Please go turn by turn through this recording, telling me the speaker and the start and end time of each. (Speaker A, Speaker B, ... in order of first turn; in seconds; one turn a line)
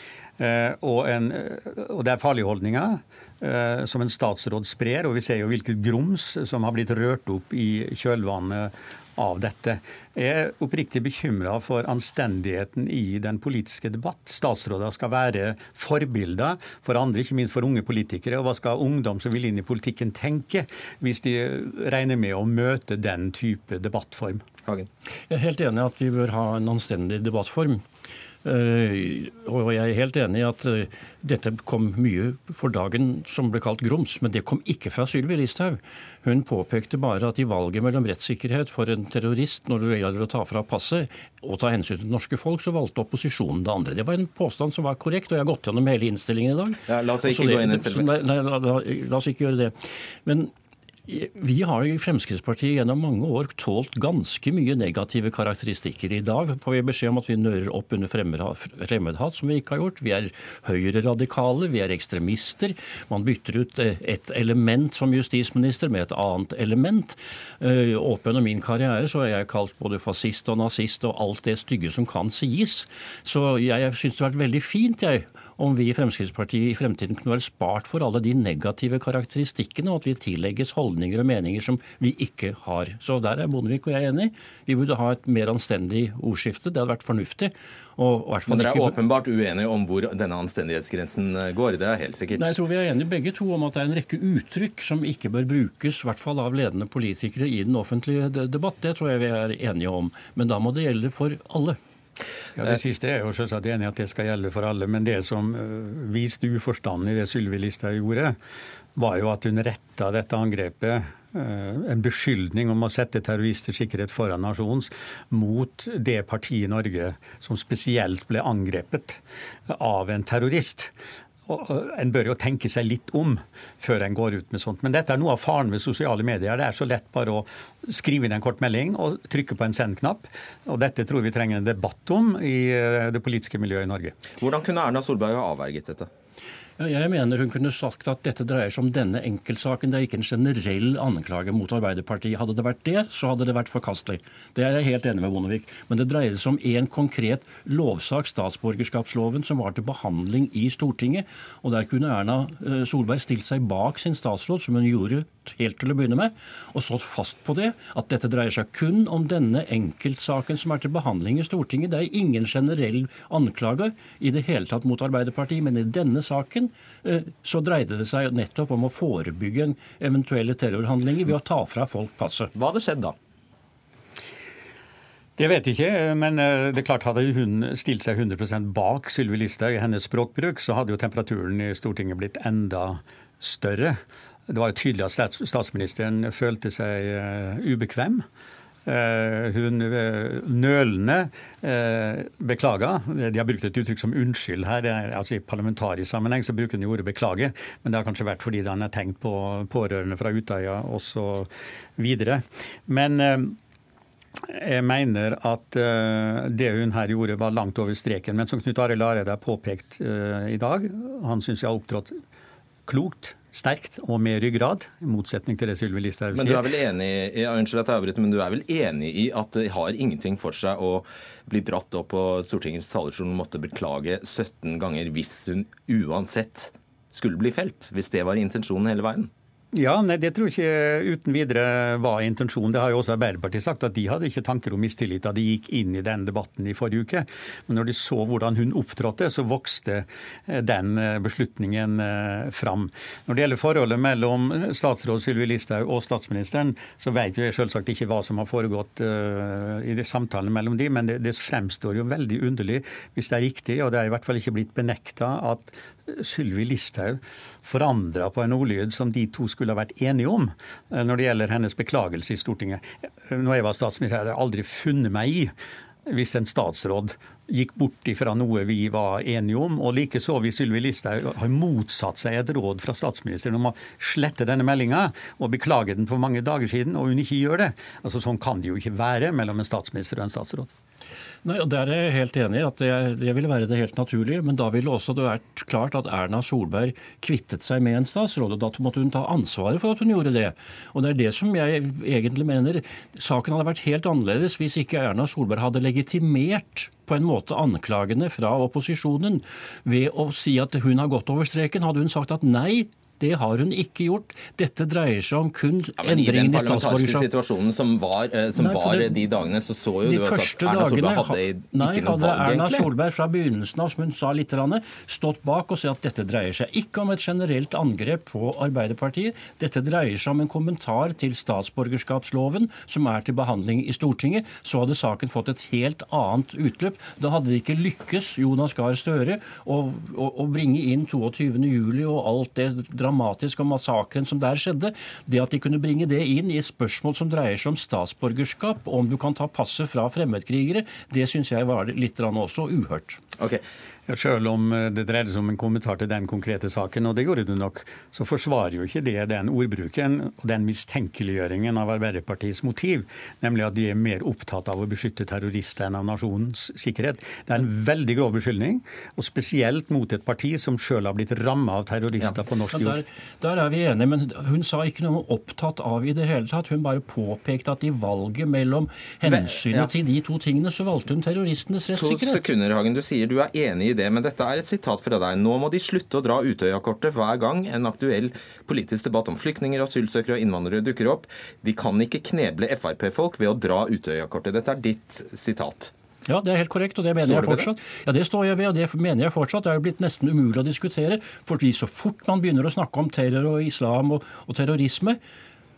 Speaker A: 0.4-24.4
Speaker B: 25.3-27.8
Speaker B: 28.4-50.5
Speaker C: 46.9-48.1
Speaker B: 51.1-89.0
Speaker C: 88.5-92.5
Speaker B: 92.3-101.8
Speaker A: 102.6-108.3
Speaker A: 109.0-120.9
Speaker A: 121.5-134.1
Speaker C: 134.4-136.1
Speaker B: 136.8-172.5
Speaker C: 172.5-173.1
Speaker A: 175.4-188.2
Speaker A: 188.8-203.6
Speaker A: 204.4-212.1
Speaker A: 212.9-216.7
Speaker C: 216.3-229.3
Speaker A: 229.7-265.5
Speaker A: 266.1-280.7
Speaker B: 281.4-307.3
Speaker C: 306.0-312.9
Speaker B: 308.6-309.2
Speaker B: 310.0-343.2
Speaker A: 344.1-363.0
Speaker B: 362.7-372.5
Speaker C: 369.2-369.9
Speaker C: 371.9-385.9
Speaker B: 386.3-395.2
Speaker C: 387.2-387.7